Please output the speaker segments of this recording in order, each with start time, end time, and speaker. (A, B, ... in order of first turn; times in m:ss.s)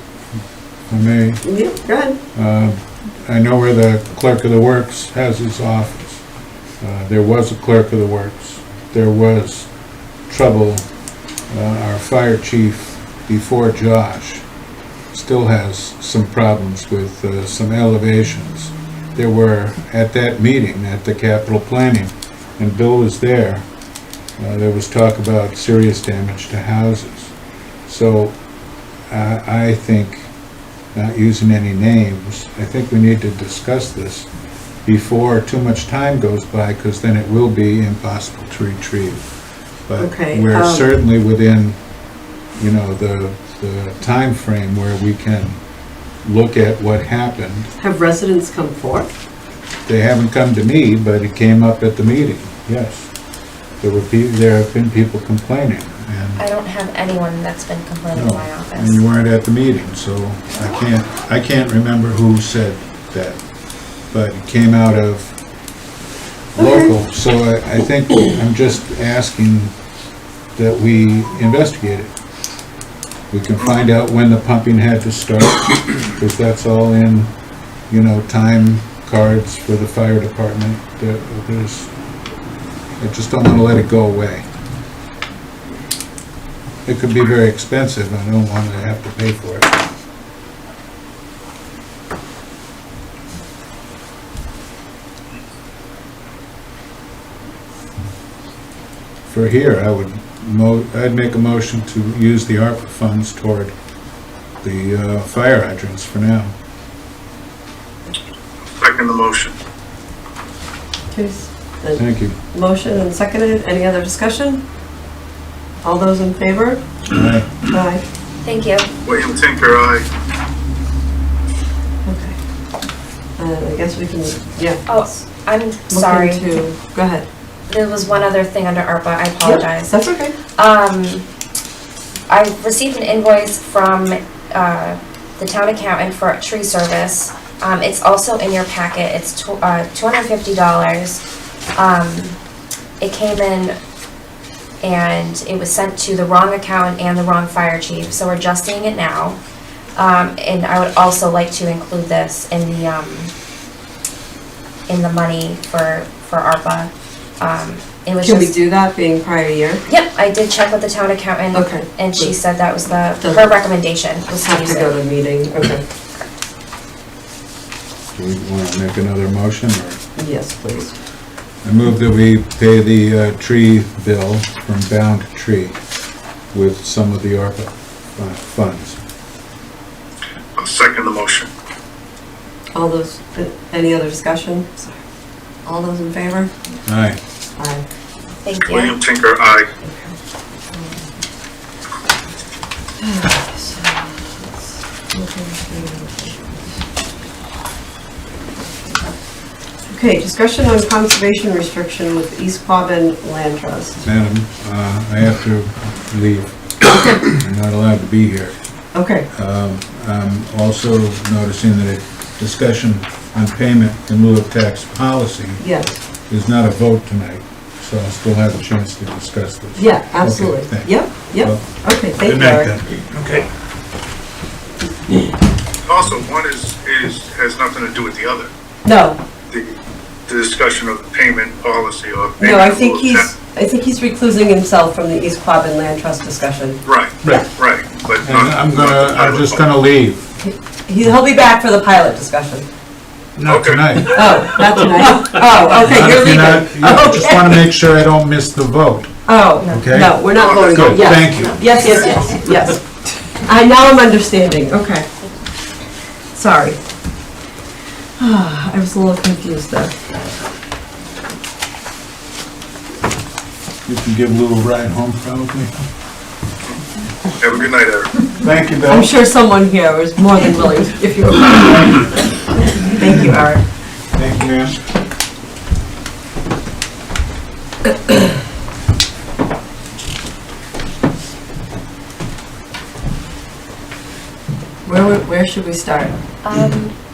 0:00.9-0:01.4 A
0:01.4-0:02.2 B
0:02.3-0:06.2 A
0:06.8-0:09.7 A
0:10.3-0:10.9 A
0:11.5-0:14.4 A
0:15.1-0:23.6 A
0:24.4-0:27.3 A
0:27.8-0:28.4 A
0:29.1-0:30.3 A
0:30.9-0:34.3 A
0:34.8-0:39.2 A
0:39.8-0:41.8 A
0:40.0-0:40.8 B
0:42.5-0:45.6 A
0:46.2-0:47.7 A
0:47.8-0:49.1 B
0:49.8-0:53.1 A
0:53.8-0:56.4 A
0:56.4-0:59.0 C
0:58.1-1:03.4 A
1:04.1-1:05.4 A
1:06.5-1:09.7 A
1:06.6-1:06.9 B
1:10.6-1:12.1 A
1:13.3-1:17.3 A
1:17.9-1:21.9 A
1:23.0-1:24.4 A
1:26.8-1:29.8 A
1:39.3-1:43.7 A
1:44.6-1:46.5 A
1:48.8-1:49.5 D
1:51.1-1:54.6 B
1:52.0-1:52.4 A
1:55.8-1:56.8 B
1:57.1-1:57.5 A
1:57.6-1:58.0 B
1:58.4-1:58.9 C
1:59.0-2:00.0 D
2:02.0-2:02.4 B
2:03.4-2:04.8 B
2:04.8-2:06.4 C
2:05.9-2:07.3 B
2:07.7-2:09.9 C
2:09.4-2:10.3 B
2:10.5-2:11.2 C
2:12.3-2:21.2 C
2:21.7-2:22.4 C
2:23.0-2:23.8 C
2:24.8-2:29.4 C
2:29.9-2:33.3 C
2:34.9-2:38.5 C
2:38.2-2:39.8 B
2:39.8-2:44.9 C
2:41.5-2:42.3 B
2:43.2-2:43.5 B
2:44.4-2:45.8 B
2:48.1-2:50.0 A
2:50.2-2:50.9 B
2:51.6-2:55.8 A
2:56.5-2:59.0 A
3:00.6-3:01.5 D
3:02.7-3:05.0 B
3:05.6-3:06.5 B
3:06.8-3:07.2 A
3:07.6-3:07.8 B
3:08.4-3:09.0 C
3:08.7-3:09.7 D
3:09.8-3:10.1 B
3:10.7-3:11.1 B
3:13.0-3:14.6 B
3:15.1-3:16.6 B
3:19.9-3:24.0 B
3:24.0-3:28.6 A
3:28.9-3:29.3 B
3:29.3-3:41.6 A
3:35.6-3:35.9 B
3:39.8-3:42.7 B
3:42.2-3:43.5 A
3:45.8-3:48.5 D
3:48.8-3:49.2 B
3:49.5-3:49.7 D
3:50.3-3:53.3 D
3:52.4-3:57.4 B
3:56.8-3:59.6 D
3:58.2-4:00.3 A
4:00.4-4:02.6 B
4:03.4-4:04.6 A
4:03.4-4:04.1 D
4:04.1-4:07.6 B
4:05.8-4:09.1 A
4:09.3-4:12.8 B
4:09.6-4:09.9 C
4:09.7-4:11.6 A
4:10.3-4:12.6 D
4:11.2-4:12.4 C
4:13.4-4:15.1 B
4:16.3-4:16.8 B
4:18.2-4:19.9 B
4:23.8-4:25.7 A
4:27.4-4:28.1 D
4:28.4-4:29.1 A
4:28.9-4:32.1 B
4:32.7-4:33.6 B
4:34.1-4:34.8 A
4:44.8-4:46.2 B
4:46.4-4:46.9 C